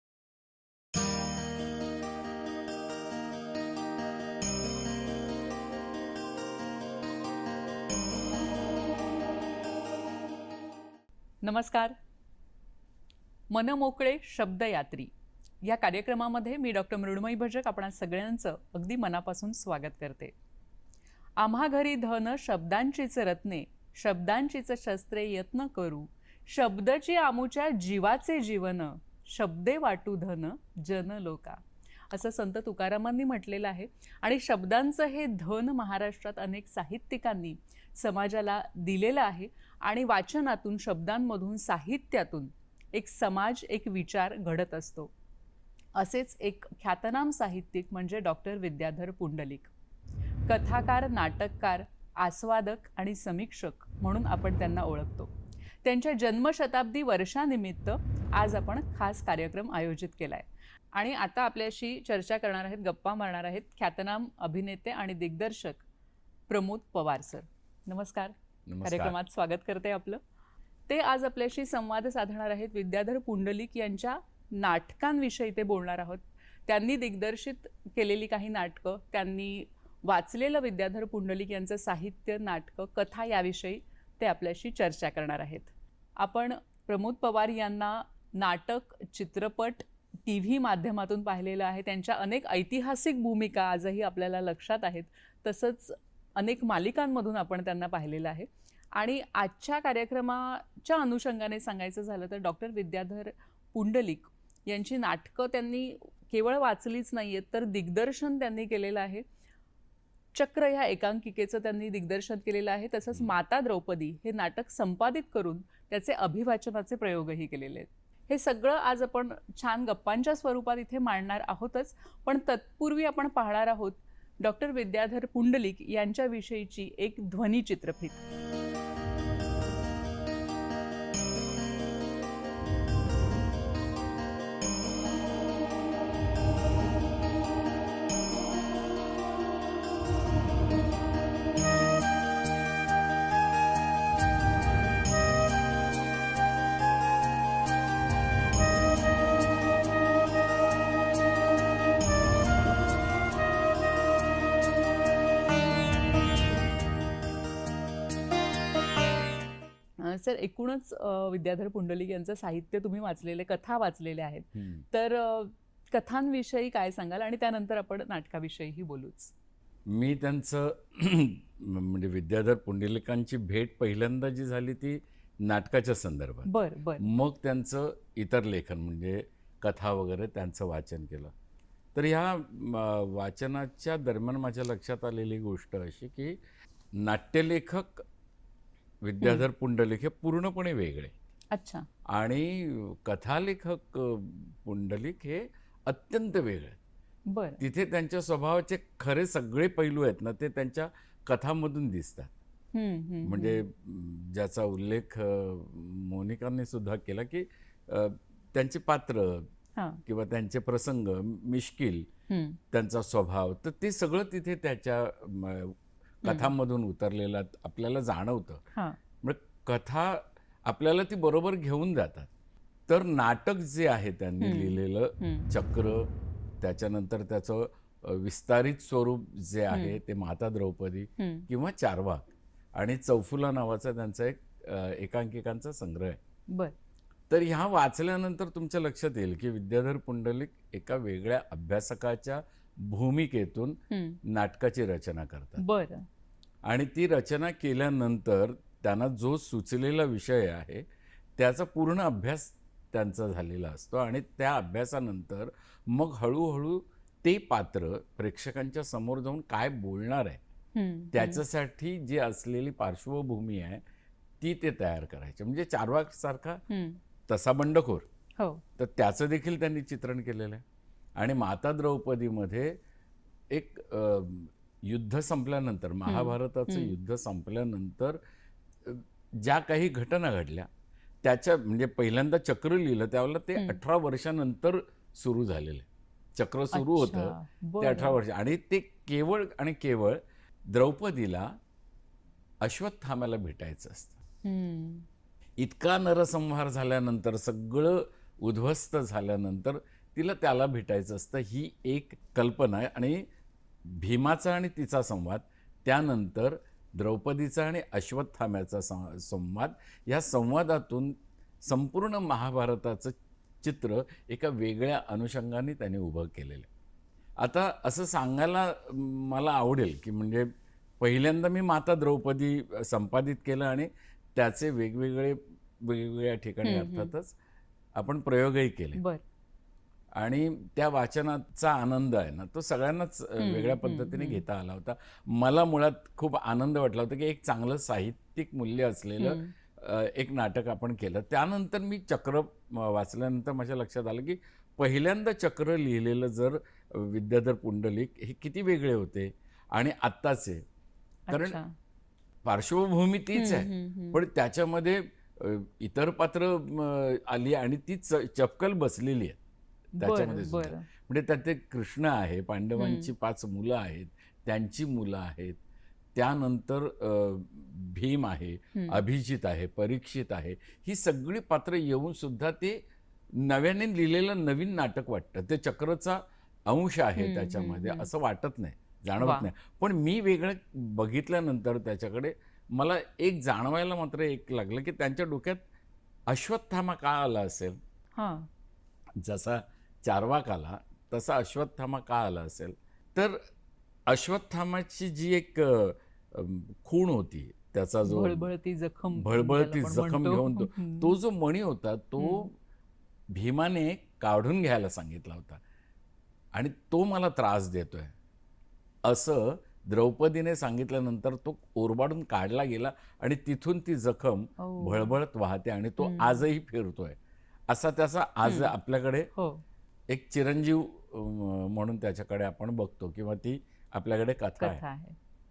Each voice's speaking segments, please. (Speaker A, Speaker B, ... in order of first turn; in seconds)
Speaker A: 11.4-11.9, 13.5-15.1, 15.6-20.3, 21.4-31.6, 32.1-45.1, 46.0-49.7, 50.5-55.3, 55.8-65.8, 66.5-70.2, 70.9-109.2, 110.3-128.2, 160.0-169.3, 176.5-177.1, 191.5-191.9, 197.3-197.6, 202.7-203.6, 209.8-210.0, 212.3-212.6, 216.2-216.5, 224.4-225.5, 229.7-230.0, 231.2-231.5, 243.9-244.2, 245.6-246.1, 260.8-261.4, 266.7-267.0, 276.1-277.0, 283.6-283.8, 286.7-288.2, 294.4-295.1, 326.6-327.1, 329.0-329.2, 333.4-334.4, 339.2-339.5, 351.3-351.7, 353.4-354.2, 360.0-360.9, 362.8-363.1, 368.8-369.0, 377.2-378.1, 379.2-379.5, 388.2-388.5, 398.1-401.2, 402.2-402.5, 414.6-415.2, 416.0-416.5, 418.4-418.8, 419.3-419.6, 424.6-425.2
Speaker B: 68.7-69.2, 164.6-164.8, 169.9-181.3, 181.9-186.4, 187.0-188.1, 189.0-191.1, 192.1-196.8, 197.6-202.3, 203.2-209.5, 210.1-212.1, 212.7-218.6, 219.2-222.3, 222.9-226.1, 226.6-236.2, 237.3-245.6, 246.7-250.8, 251.4-260.4, 261.1-263.8, 264.4-266.6, 267.3-268.1, 268.8-270.6, 271.2-272.8, 273.5-278.2, 278.8-280.7, 281.2-291.5, 292.6-294.2, 295.6-303.2, 303.9-316.7, 317.4-327.4, 328.0-329.0, 330.2-350.6, 351.3-351.6, 352.4-359.4, 360.0-365.6, 366.1-372.8, 373.4-385.6, 386.3-387.8, 389.2-393.4, 394.1-398.5, 399.1-402.5, 403.3-405.6, 406.5-408.1, 409.1-419.3, 420.1-424.8